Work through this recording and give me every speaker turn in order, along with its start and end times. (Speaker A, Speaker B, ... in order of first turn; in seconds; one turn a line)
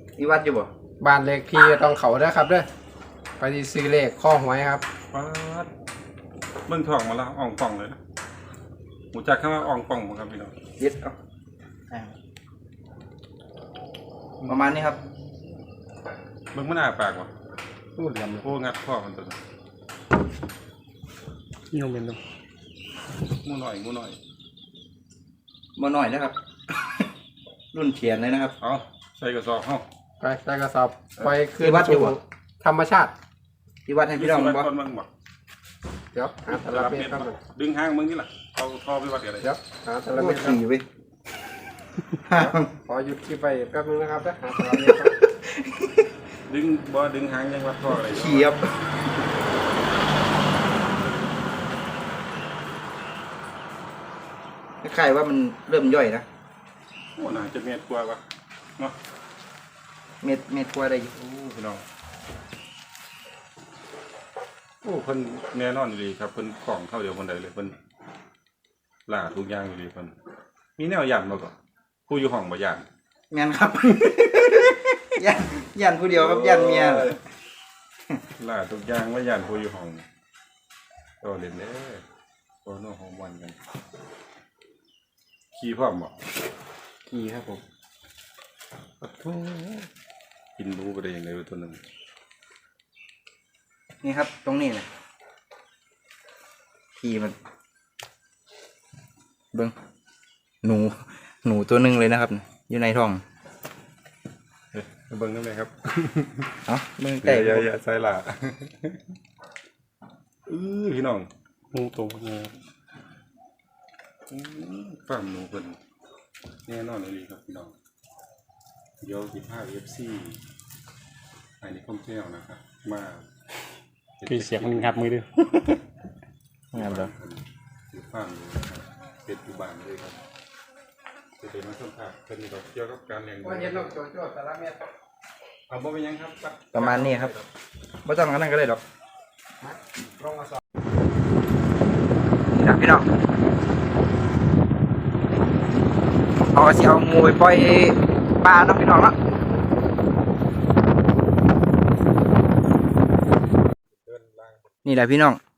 Speaker A: 0.2-0.7
Speaker B: 1.0-2.7
Speaker B: 3.4-4.8
Speaker C: 5.1-5.7
Speaker C: 6.7-8.0
Speaker C: 9.1-10.5
Speaker A: 10.8-11.1
Speaker A: 14.4-15.0
Speaker C: 14.4-14.9
Speaker C: 16.5-17.3
Speaker B: 18.0-18.4
Speaker C: 18.4-19.4
Speaker D: 21.7-22.2
Speaker C: 23.4-24.2
Speaker A: 25.8-27.1
Speaker A: 27.7-28.5
Speaker C: 28.6-29.8
Speaker B: 30.2-33.1
Speaker A: 31.6-32.2
Speaker A: 33.9-34.7
Speaker C: 34.1-35.1
Speaker B: 36.1-37.4
Speaker C: 36.5-39.5
Speaker B: 39.4-40.6
Speaker A: 40.1-40.8
Speaker A: 42.2-42.7
Speaker B: 42.3-45.1
Speaker A: 44.7-46.1
Speaker C: 46.5-48.6
Speaker A: 48.0-48.8
Speaker A: 54.8-56.2
Speaker C: 57.2-58.2
Speaker A: 60.2-61.1
Speaker C: 61.1-61.8
Speaker C: 64.8-67.8
Speaker C: 69.1-70.1
Speaker C: 70.8-71.5
Speaker C: 72.1-72.8
Speaker A: 73.3-77.2
Speaker C: 76.1-77.2
Speaker C: 78.4-80.0
Speaker C: 81.2-82.0
Speaker C: 82.6-83.6
Speaker C: 85.5-86.1
Speaker A: 87.1-87.6
Speaker C: 89.0-89.9
Speaker C: 90.6-91.8
Speaker A: 94.0-94.9
Speaker A: 97.0-97.3
Speaker A: 100.6-103.2
Speaker C: 104.7-106.5
Speaker A: 106.7-107.8
Speaker C: 107.2-109.0
Speaker C: 110.5-111.3
Speaker D: 111.7-112.5
Speaker C: 114.3-115.8
Speaker C: 116.7-117.7
Speaker C: 119.0-120.4
Speaker C: 121.6-123.3
Speaker C: 124.2-125.0
Speaker D: 124.3-125.3
Speaker A: 126.7-127.1
Speaker C: 126.7-130.2
Speaker C: 131.4-133.9
Speaker B: 133.4-134.8
Speaker C: 135.7-137.4
Speaker A: 136.7-137.3
Speaker A: 138.1-138.8
Speaker A: 142.5-143.1
Speaker A: 146.5-149.1
Speaker C: 154.0-154.7
Speaker A: 154.8-155.4